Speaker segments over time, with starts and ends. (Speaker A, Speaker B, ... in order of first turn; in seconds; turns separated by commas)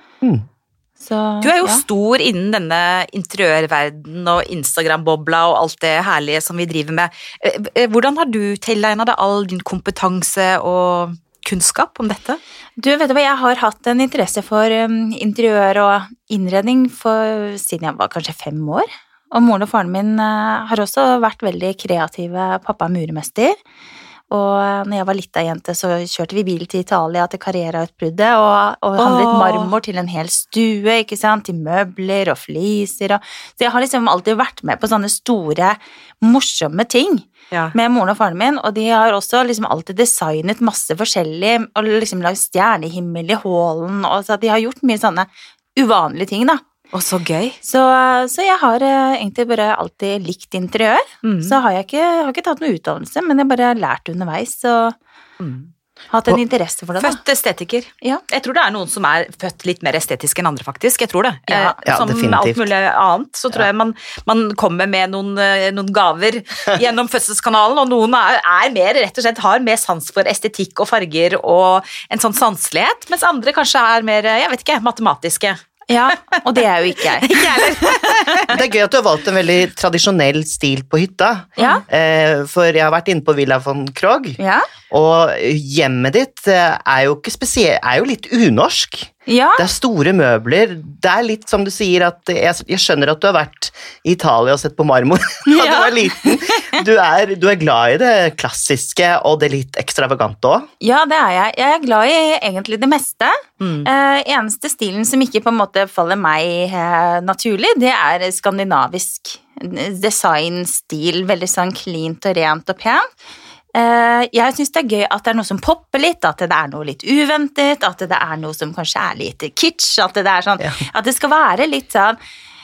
Speaker A: 1.0-1.8, Speaker B: 1.4-12.4, Speaker A: 12.8-23.6, Speaker A: 24.3-46.6, Speaker B: 29.0-29.7, Speaker B: 46.9-47.6, Speaker A: 47.6-55.0, Speaker B: 51.2-51.6, Speaker B: 55.4-55.7, Speaker A: 56.1-57.2, Speaker B: 57.0-75.6, Speaker A: 61.5-61.8, Speaker C: 61.9-62.6, Speaker A: 75.9-78.5, Speaker B: 77.0-78.5, Speaker C: 78.5-84.4, Speaker A: 81.6-81.8, Speaker A: 84.4-84.7, Speaker C: 84.9-100.7, Speaker A: 89.3-89.7, Speaker A: 95.5-96.8, Speaker A: 100.8-113.1, Speaker B: 103.6-103.9, Speaker A: 113.7-122.2